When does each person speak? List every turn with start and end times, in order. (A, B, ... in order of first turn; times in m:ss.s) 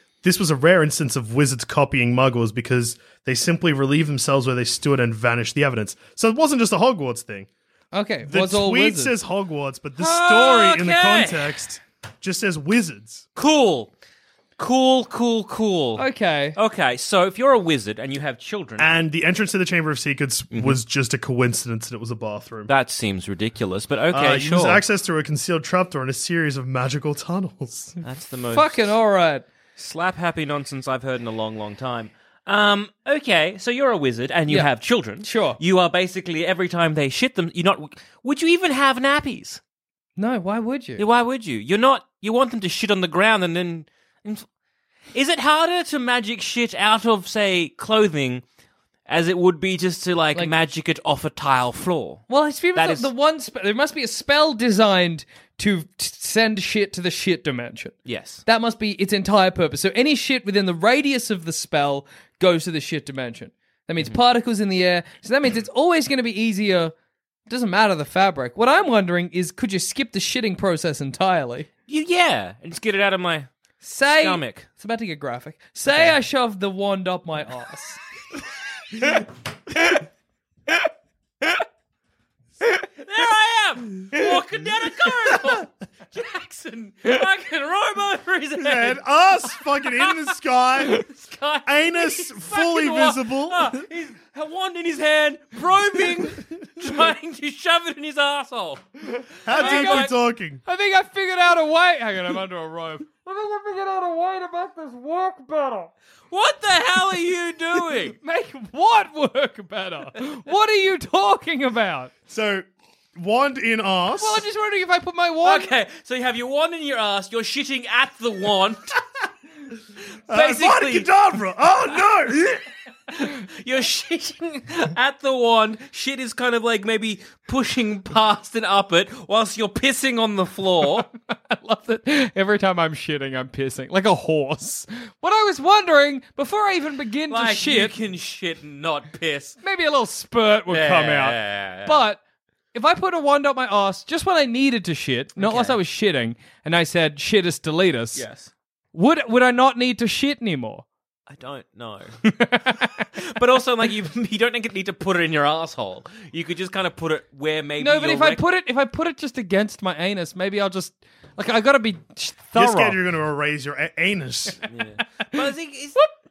0:00.2-0:07.5 A
0:07.9-0:09.1 B
0:08.3-0:13.2 A
0:10.0-0:11.6 C
0:13.4-0:13.9 C
0:14.6-0:18.9 C
0:16.0-0:16.6 B
0:18.8-0:22.7 A
0:20.5-0:20.8 C
0:22.7-0:24.8 C
0:24.1-0:28.0 A
0:28.0-0:28.8 C
0:28.5-0:29.4 B
0:29.8-0:39.6 C
0:35.2-0:35.6 B
0:40.2-0:41.0 B
0:41.0-0:44.4 C
0:45.1-0:48.4 C
0:49.1-0:53.1 C
0:52.3-0:58.0 B
0:58.1-0:58.4 C
0:58.5-1:06.9 B
1:07.5-1:11.7 B
1:11.9-1:13.5 C
1:13.8-1:18.0 B
1:14.2-1:14.7 C
1:23.0-1:38.8 C
1:28.6-1:31.0 A
1:31.7-1:33.8 A
1:39.0-1:40.1 B
1:39.4-1:40.6 A
1:39.5-1:40.1 C
1:40.6-1:45.9 B
1:46.3-1:48.2 C
1:48.2-1:52.1 B
1:52.3-1:54.4 A
1:54.2-1:55.7 B
1:55.4-1:59.0 C
2:00.3-2:01.1 C
2:00.3-2:02.6 A
2:03.1-2:11.1 C
2:11.3-2:18.0 B
2:17.3-2:19.6 C
2:19.6-2:22.2 B
2:20.7-2:22.0 C
2:22.7-2:28.2 B
2:25.4-2:25.8 C
2:28.2-2:28.5 C
2:28.9-2:30.8 B
2:31.3-2:32.2 C
2:32.2-2:32.9 B
2:32.8-2:38.4 C
2:37.8-2:43.0 B
2:42.6-2:44.7 A
2:44.7-2:46.0 C